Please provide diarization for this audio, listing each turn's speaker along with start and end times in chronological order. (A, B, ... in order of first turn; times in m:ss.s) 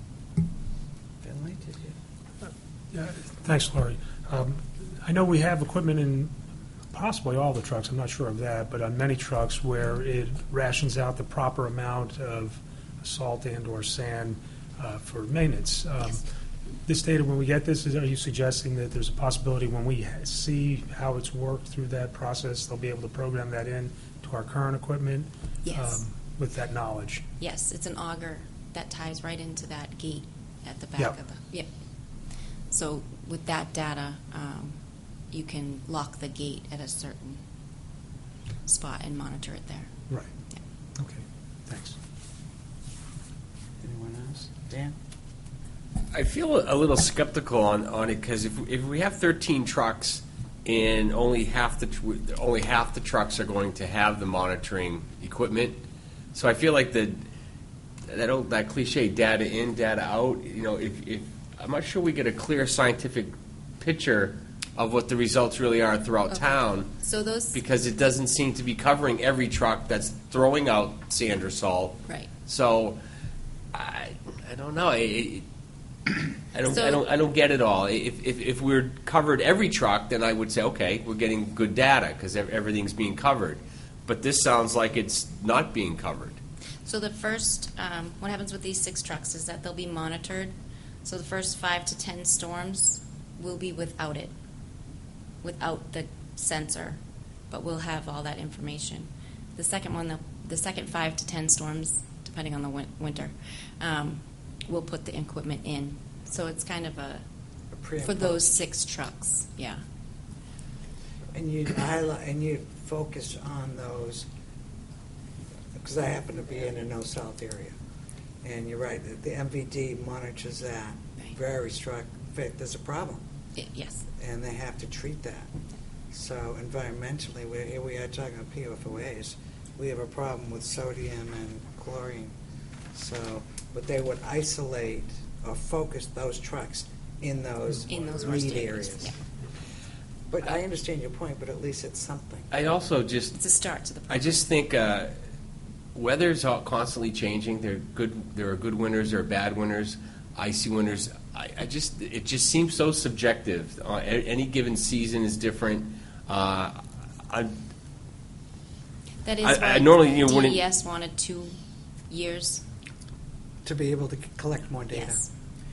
0:01.2-0:02.0 A
0:02.9-0:06.3 B
0:06.9-0:16.2 B
0:16.9-0:27.2 B
0:25.6-0:26.0 C
0:27.4-0:31.7 C
0:32.7-0:34.8 C
0:35.3-0:37.4 C
0:38.7-0:39.9 C
0:41.0-0:42.0 B
0:43.8-0:44.9 A
0:46.1-0:55.8 D
0:56.3-0:57.2 D
0:58.1-1:06.9 D
1:06.3-1:07.6 C
1:07.5-1:13.0 D
1:13.7-1:15.4 D
1:16.1-1:26.4 D
1:16.6-1:17.0 C
1:26.8-1:30.5 C
1:31.0-1:34.3 C
1:35.4-1:37.0 C
1:37.5-1:47.2 C
1:47.7-1:48.5 A
1:48.0-1:49.8 C
1:51.3-1:54.3 A
1:55.8-1:57.8 A
1:58.4-2:03.2 A
2:03.6-2:04.0 C
2:04.2-2:05.5 A
2:06.1-2:12.3 A
2:12.9-2:19.2 A
2:17.9-2:19.1 C
2:20.3-2:22.5 A
2:22.5-2:23.4 D
2:23.3-2:24.5 C
2:24.1-2:25.1 D
2:26.0-2:37.5 D
2:39.2-2:41.6 C
2:39.4-2:40.6 D
2:42.1-2:42.6 C
2:43.6-2:45.2 A
2:44.9-2:45.3 C